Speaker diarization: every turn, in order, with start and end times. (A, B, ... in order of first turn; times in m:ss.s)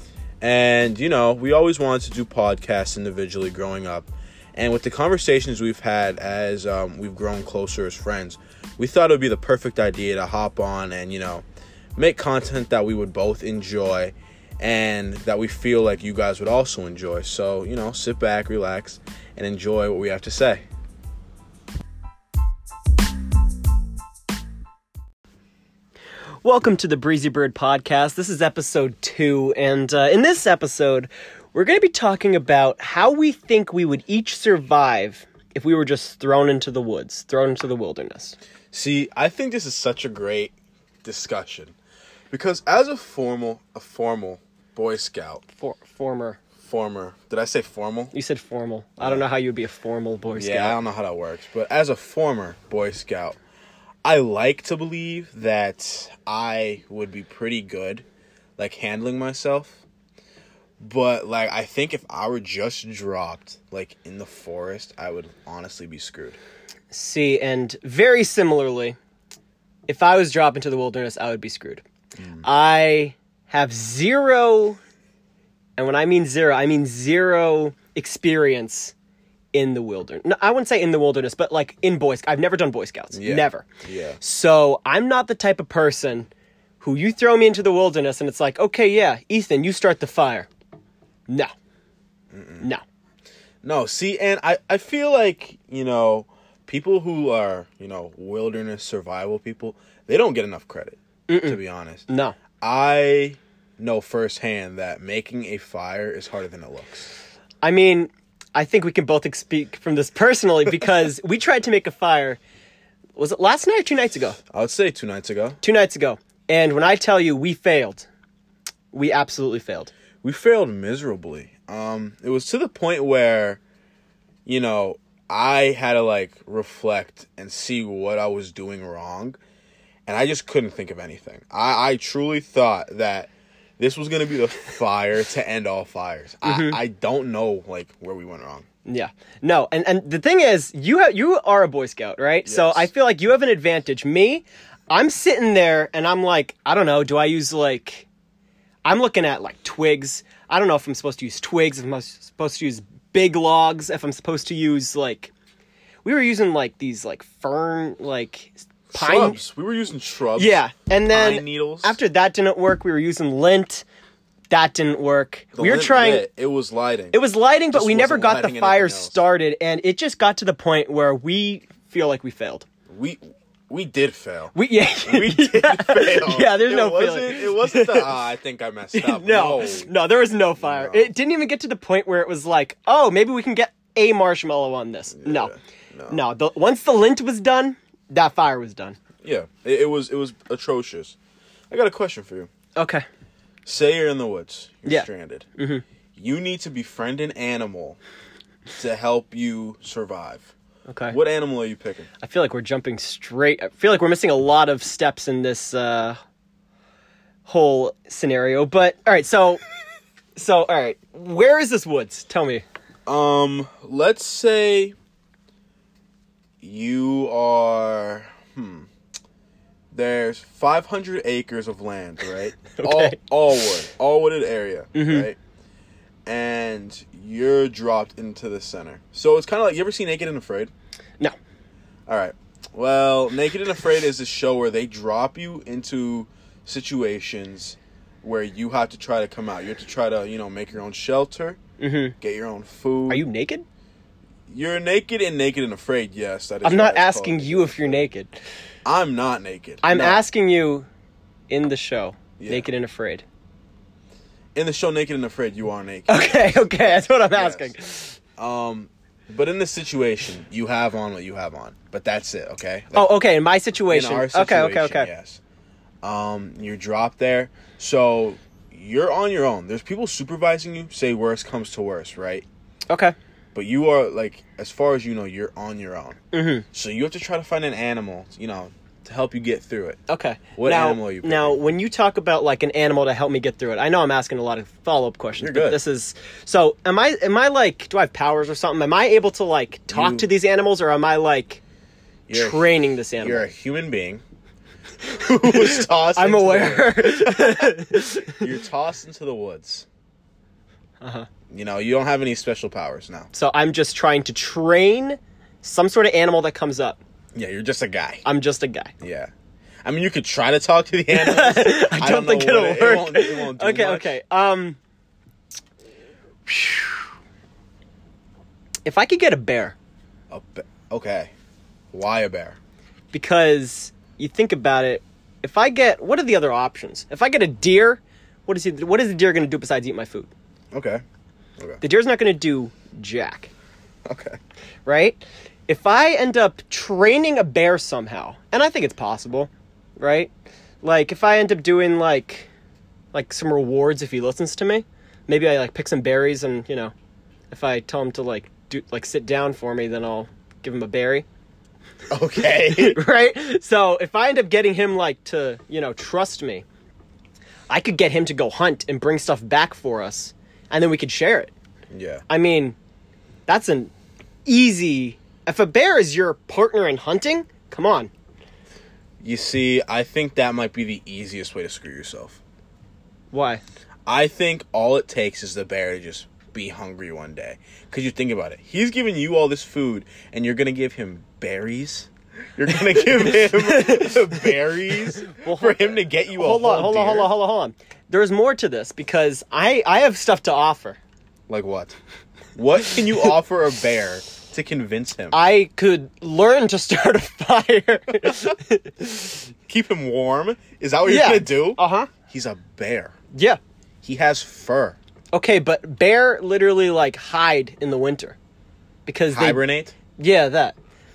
0:00.4-0:11.4 A
0:12.0-0:20.6 A
0:26.4-0:38.4 B
0:38.7-0:40.5 A
0:41.0-0:41.7 A
0:42.3-0:45.4 A
0:45.6-0:46.4 B
0:46.6-0:48.1 A
0:48.1-0:50.8 B
0:49.0-0:49.3 A
0:50.3-0:53.4 A
0:54.0-0:58.0 A
0:58.6-0:59.8 A
1:00.8-1:06.4 A
1:06.9-1:09.0 B
1:09.9-1:11.8 B
1:12.2-1:12.4 A
1:12.4-1:14.8 B
1:15.8-1:18.9 B
1:19.5-1:23.6 B
1:23.1-1:24.2 A
1:24.2-1:26.3 B
1:26.8-1:30.5 B
1:32.3-1:32.7 A
1:33.6-1:42.1 A
1:41.3-1:42.4 B
1:42.6-1:47.1 A
1:47.6-1:52.4 B
1:53.2-1:54.4 B
1:54.5-1:55.6 A
1:55.6-1:58.1 B
1:58.9-1:59.9 B
2:00.2-2:03.6 A
2:04.4-2:09.4 A
2:10.1-2:18.6 A
2:16.4-2:16.8 B
2:18.8-2:28.1 B
2:22.4-2:22.9 A
2:28.8-2:35.3 B
2:36.0-2:39.4 B
2:38.9-2:42.0 A
2:40.4-2:43.8 B
2:44.5-2:46.2 B
2:45.5-2:47.2 A
2:47.1-2:52.6 B
2:47.7-2:49.2 A
2:52.9-2:59.9 A
2:54.5-2:58.1 B
2:58.9-3:05.5 B
3:00.6-3:01.1 A
3:05.1-3:06.2 A
3:06.1-3:09.0 B
3:09.2-3:11.2 A
3:11.7-3:12.5 A
3:12.8-3:13.0 B
3:13.6-3:15.5 A
3:14.8-3:15.8 B
3:16.2-3:18.0 A
3:18.8-3:20.5 A
3:20.9-3:21.2 B
3:21.1-3:22.1 A
3:22.2-3:26.2 B
3:27.4-3:29.6 B
3:30.4-3:32.6 B
3:33.0-3:34.9 A
3:36.6-3:38.9 A
3:39.9-3:45.4 A
3:42.7-3:43.2 B
3:44.9-3:45.3 B
3:46.2-3:50.7 A
3:52.1-4:01.6 A
4:01.8-4:02.2 B
4:02.2-4:03.2 A
4:03.1-4:03.6 B
4:04.5-4:08.0 A
4:06.6-4:08.3 B
4:08.8-4:10.2 A
4:09.8-4:10.9 B
4:11.5-4:13.2 B
4:12.4-4:12.7 A
4:14.5-4:17.7 A
4:16.1-4:18.2 B
4:18.4-4:23.2 A
4:22.9-4:25.1 B
4:23.9-4:25.4 A
4:26.0-4:32.4 A
4:32.9-4:33.2 B
4:33.5-4:36.2 A
4:36.3-4:36.6 B
4:36.7-4:40.0 A
4:40.1-4:51.6 B
4:40.6-4:41.6 A
4:45.4-4:45.8 A
4:49.9-4:50.3 A
4:52.3-4:54.2 A
4:52.3-4:53.5 B
4:55.1-4:57.8 A
4:55.5-4:58.4 B
4:58.3-4:59.9 A
5:01.0-5:01.3 B
5:01.5-5:03.3 A
5:03.3-5:07.0 B
5:07.3-5:08.2 A
5:08.2-5:08.9 B
5:09.0-5:09.3 A
5:09.8-5:14.1 A
5:11.1-5:14.8 B
5:16.4-5:17.1 B
5:18.8-5:19.8 B
5:20.3-5:21.3 A
5:21.9-5:22.6 A
5:23.1-5:30.3 B
5:30.7-5:31.0 A
5:31.8-5:33.5 B
5:34.0-5:34.4 A
5:34.8-5:40.3 B
5:40.8-5:42.5 B
5:43.1-5:46.9 B
5:47.5-5:51.2 B
5:52.1-5:53.0 A
5:52.5-5:56.6 B
5:57.7-6:01.5 B
6:01.9-6:02.2 A
6:02.3-6:02.8 B
6:03.5-6:03.9 B
6:04.4-6:08.1 B
6:09.2-6:12.4 A
6:13.3-6:13.6 B
6:14.0-6:27.3 A
6:23.2-6:24.5 B
6:25.0-6:31.0 B
6:31.5-6:32.0 A
6:32.6-6:35.4 A
6:35.3-6:39.4 B
6:38.2-6:38.5 A
6:39.7-6:43.1 A
6:41.0-6:42.1 B
6:43.3-6:43.6 B
6:44.0-6:45.0 A
6:45.3-6:48.4 B
6:49.0-6:49.6 B
6:49.3-6:49.9 A
6:50.2-6:50.7 B